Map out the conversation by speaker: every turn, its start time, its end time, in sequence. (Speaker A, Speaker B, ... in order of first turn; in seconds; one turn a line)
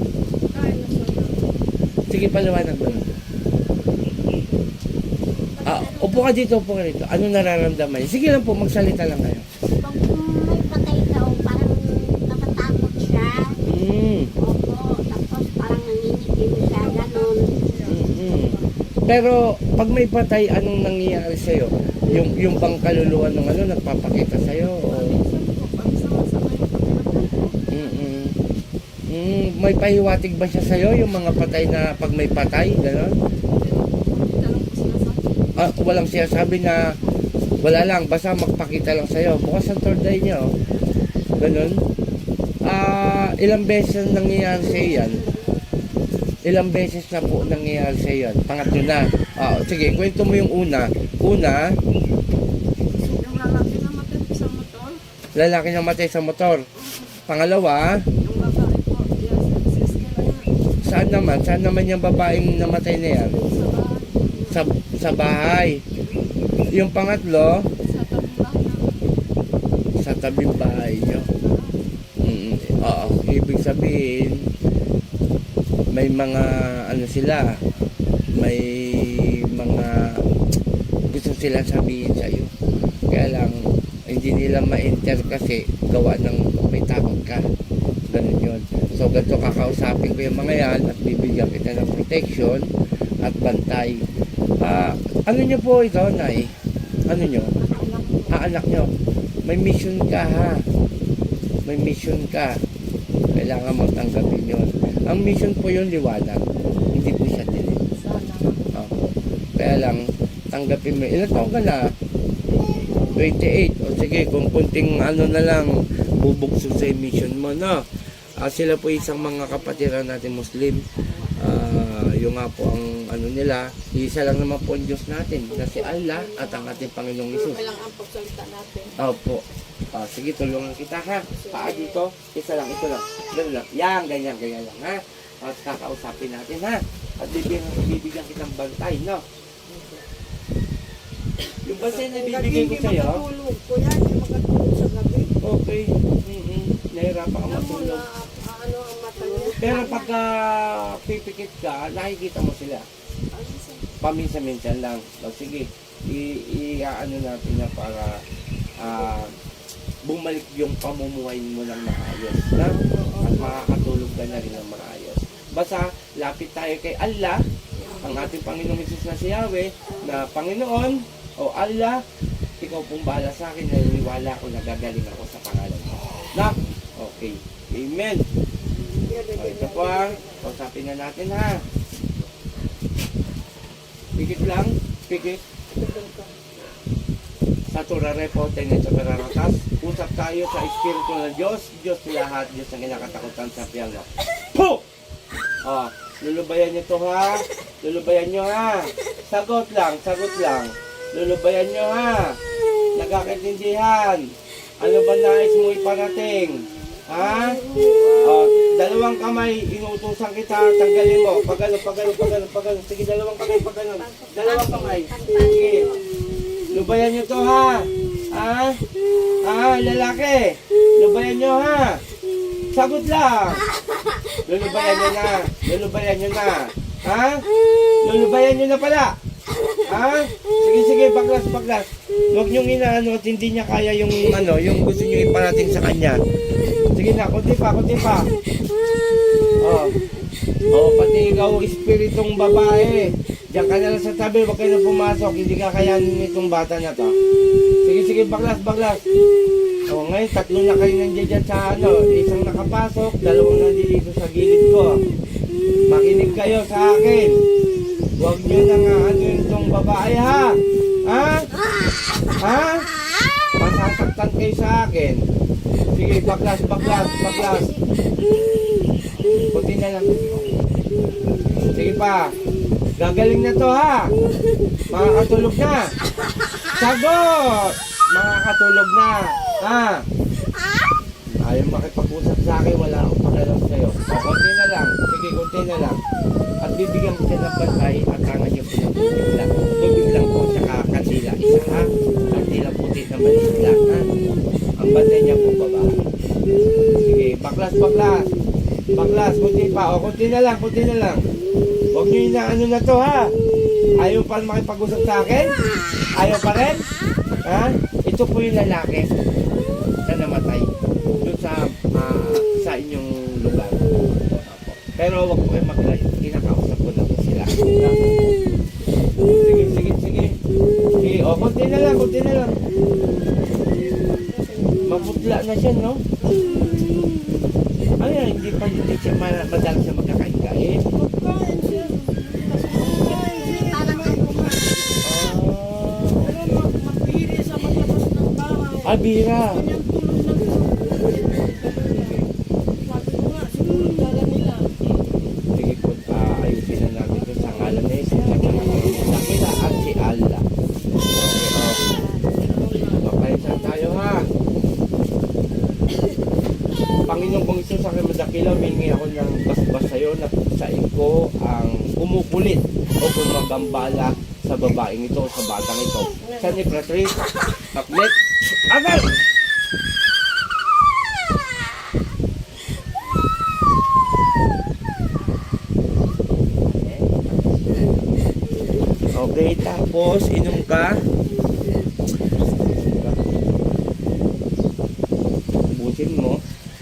Speaker A: 0.5-1.4
Speaker B: 2.1-3.2
Speaker C: 5.6-6.3
Speaker B: 5.6-9.4
Speaker C: 9.8-13.6
Speaker B: 13.6-14.3
Speaker C: 14.4-17.6
Speaker A: 16.7-17.9
Speaker B: 17.9-25.1
Speaker A: 24.9-27.8
Speaker B: 27.7-28.4
Speaker B: 29.1-33.2
Speaker A: 33.5-35.2
Speaker B: 35.6-37.0
Speaker B: 37.6-40.5
Speaker B: 41.4-41.8
Speaker B: 42.6-45.2
Speaker B: 46.4-51.8
Speaker A: 52.9-55.0
Speaker B: 55.3-56.6
Speaker B: 57.3-58.0
Speaker A: 58.2-60.5
Speaker B: 60.8-63.4
Speaker A: 63.1-64.6
Speaker B: 64.5-65.8
Speaker B: 66.7-67.7
Speaker A: 67.8-69.1
Speaker B: 70.0-71.3
Speaker A: 71.2-71.8
Speaker B: 72.2-74.5
Speaker B: 75.9-77.5
Speaker B: 78.3-80.2
Speaker B: 81.1-82.5
Speaker B: 83.1-87.5
Speaker B: 88.1-92.7
Speaker B: 93.2-94.0
Speaker B: 94.6-97.6
Speaker A: 97.6-98.3
Speaker B: 98.3-98.9
Speaker B: 99.4-100.7
Speaker B: 101.6-102.6
Speaker B: 103.3-107.8
Speaker A: 107.9-108.7
Speaker B: 108.7-109.0
Speaker B: 109.5-111.9
Speaker B: 113.1-127.6
Speaker A: 125.5-129.0
Speaker B: 129.0-139.2
Speaker A: 131.3-131.9
Speaker B: 141.6-143.2
Speaker A: 141.8-145.3
Speaker B: 145.4-148.0
Speaker A: 147.4-150.1
Speaker C: 149.3-149.8
Speaker B: 149.6-152.8
Speaker A: 153.3-153.8
Speaker B: 154.0-158.2
Speaker B: 158.8-159.3
Speaker B: 160.0-167.4
Speaker A: 162.8-164.6
Speaker B: 168.0-172.0
Speaker B: 172.6-178.2
Speaker A: 179.0-180.4
Speaker B: 179.3-181.6
Speaker B: 184.1-185.4
Speaker A: 185.7-186.3
Speaker B: 187.7-194.8
Speaker B: 195.6-202.4
Speaker B: 202.9-207.6
Speaker B: 208.2-215.9
Speaker C: 214.1-216.0
Speaker B: 216.7-218.8
Speaker B: 219.4-222.0
Speaker B: 222.7-223.6
Speaker B: 224.4-227.5
Speaker B: 228.0-229.2
Speaker B: 229.8-236.2
Speaker B: 236.9-238.3
Speaker B: 239.6-239.9
Speaker B: 240.7-247.1
Speaker B: 247.8-249.0
Speaker B: 249.9-255.0
Speaker B: 255.9-257.4
Speaker B: 258.2-261.5
Speaker B: 262.4-262.9
Speaker B: 263.6-265.2
Speaker B: 265.9-267.7
Speaker B: 269.2-270.6
Speaker B: 271.6-272.3
Speaker B: 273.0-274.1
Speaker B: 274.9-275.9
Speaker B: 276.7-280.0
Speaker B: 281.3-286.0
Speaker B: 286.6-294.1
Speaker B: 294.8-295.9
Speaker B: 297.0-298.3
Speaker B: 298.9-301.2
Speaker B: 301.9-303.3
Speaker B: 303.9-305.6
Speaker B: 306.1-306.9
Speaker B: 307.4-309.1
Speaker B: 310.0-318.1
Speaker B: 319.2-320.4
Speaker B: 321.0-322.6
Speaker A: 323.4-325.2
Speaker B: 324.9-326.0
Speaker A: 326.2-326.9
Speaker B: 328.0-330.8
Speaker A: 330.9-334.8
Speaker C: 333.0-334.9
Speaker B: 335.0-336.4
Speaker A: 336.2-338.9
Speaker B: 338.8-339.6
Speaker A: 339.5-342.1
Speaker B: 341.8-342.3
Speaker A: 342.8-344.7
Speaker B: 344.8-350.4
Speaker B: 351.1-351.8
Speaker A: 351.8-353.0
Speaker B: 352.9-354.3
Speaker B: 357.0-369.1
Speaker B: 376.5-377.8
Speaker B: 379.0-381.0
Speaker B: 382.5-383.2
Speaker B: 385.7-386.4